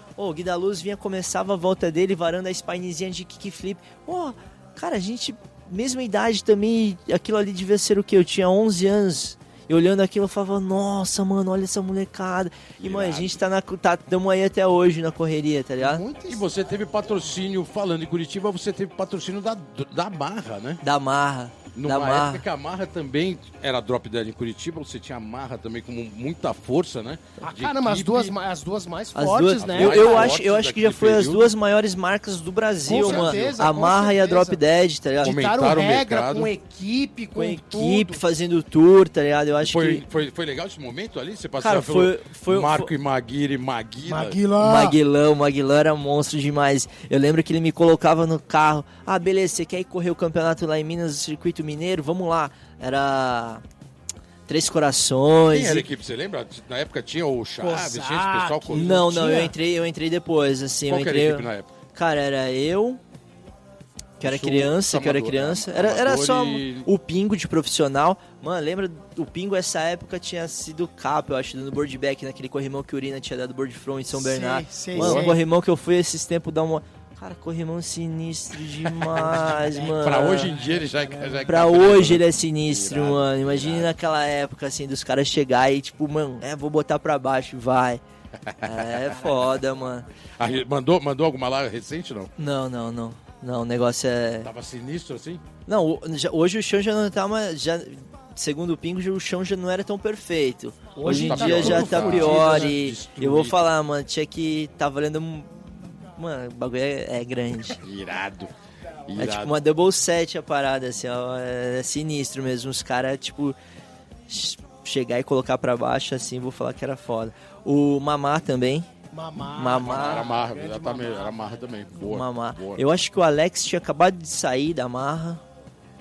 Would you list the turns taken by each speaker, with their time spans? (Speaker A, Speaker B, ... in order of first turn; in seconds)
Speaker A: 0.2-16.0, 20.8-22.4, 29.1-35.3, 37.4-40.0, 41.6-42.9, 44.6-53.6, 54.5-55.9, 58.7-63.0, 64.2-80.5, 81.5-88.0, 88.6-90.0, 92.4-94.5, 95.7-107.8, 109.2-113.6, 114.3-118.9, 119.5-120.2, 122.0-125.4
Speaker B: 12.8-13.4, 16.3-20.8, 21.8-28.4, 29.6-31.5, 32.9-33.6, 35.2-36.5, 39.6-44.4, 55.5-59.1, 60.9-61.7, 64.2-66.9, 75.0-75.3, 79.2-83.9, 88.4-89.2, 90.4-92.3, 94.4-95.4, 101.0-103.7, 107.8-108.5, 109.1-109.6, 119.8-122.8
Speaker C: 15.8-16.5, 27.4-30.4, 32.9-34.6, 35.2-38.2, 44.0-45.0, 57.6-59.6, 74.1-75.4, 79.2-81.6, 101.0-102.8, 119.1-121.9